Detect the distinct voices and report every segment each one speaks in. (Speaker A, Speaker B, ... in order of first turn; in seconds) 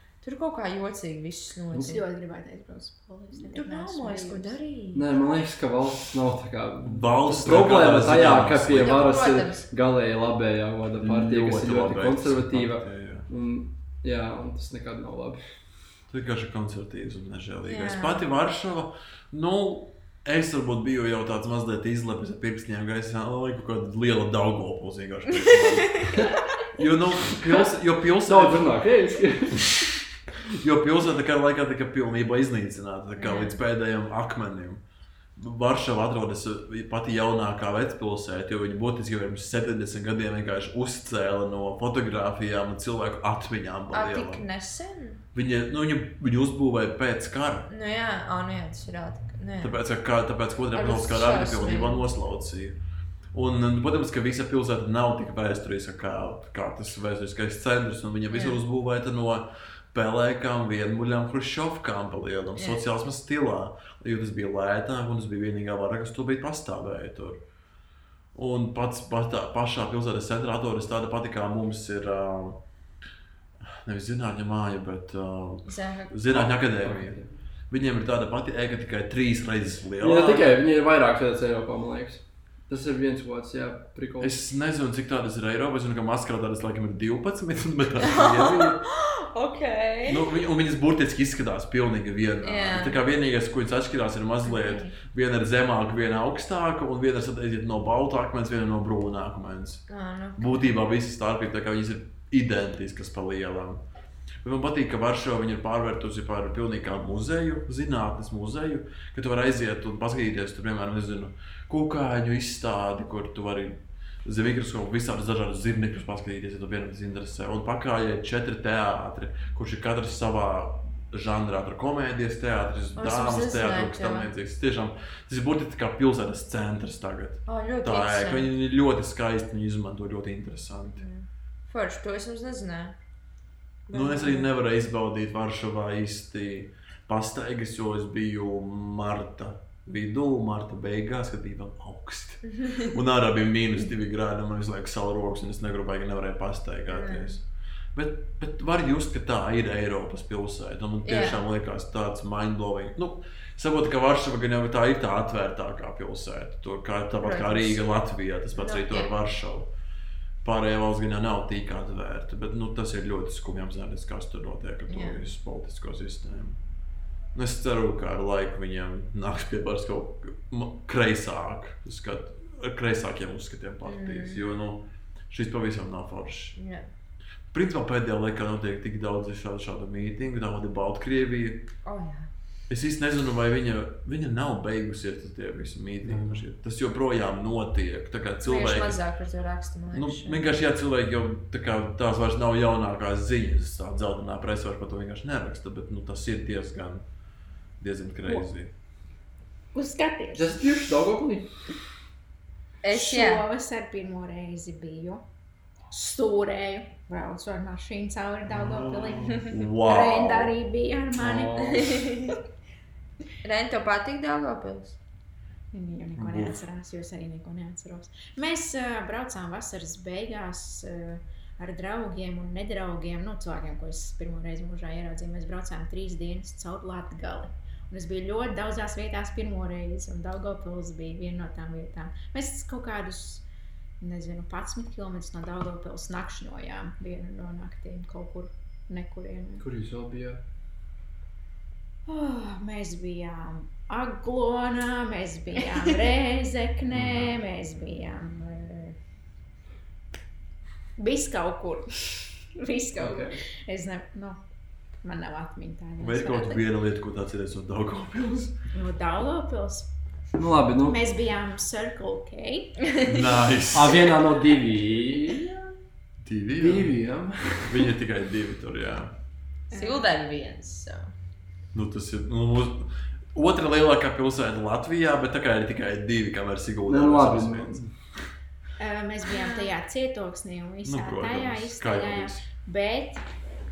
Speaker A: 0.2-2.0, 3.4-5.0, 8.8-9.6, 17.6-18.3, 25.4-26.1, 33.1-33.6, 43.9-45.2, 47.7-49.8, 50.7-52.0, 58.3-58.6, 62.5-62.8, 75.7-76.1, 88.1-90.2, 92.4-93.0, 94.4-95.0, 99.9-100.7, 123.0-124.3, 127.5-128.5, 131.0-132.9, 133.9-134.5, 142.6-142.9, 146.9-147.3, 151.0-151.4, 157.2-157.9, 158.5-159.1, 164.9-165.3, 173.8-174.4, 176.6-176.9, 181.8-182.3, 188.4-190.4, 202.8-203.4, 211.7-212.3, 213.4-215.0, 269.7-271.1, 279.4-279.7
Speaker B: 1.7-4.6, 199.7-200.6, 202.9-205.2, 205.9-211.8, 215.7-233.4, 234.0-239.6, 242.1-249.0, 251.0-254.4, 255.0-256.6, 258.7-259.9, 260.8-262.9, 269.7-270.0, 278.8-283.2
Speaker C: 4.9-15.5, 28.2-29.9, 76.3-77.4, 80.0-84.3, 200.3-201.7, 211.2-212.1, 239.6-240.4, 253.0-253.4, 260.4-261.0, 263.7-265.6, 266.6-267.9, 276.9-277.9
Speaker D: 6.8-9.2, 11.0-13.3, 16.1-26.1, 26.8-28.7, 30.4-34.8, 35.4-44.4, 45.3-47.7, 49.6-52.8, 53.3-67.4, 68.3-72.6, 73.6-80.6, 84.2-88.8, 90.0-99.8, 100.4-103.8, 104.4-131.0, 133.9-147.4, 147.9-159.7, 160.4-166.6, 167.3-176.6, 177.5-181.6, 182.7-189.0, 189.9-197.0, 197.8-198.7, 208.5-210.5, 216.2-216.6, 246.9-247.4, 256.0-258.5, 263.0-264.1, 266.2-267.0, 267.6-269.1, 271.7-277.8, 280.8-282.4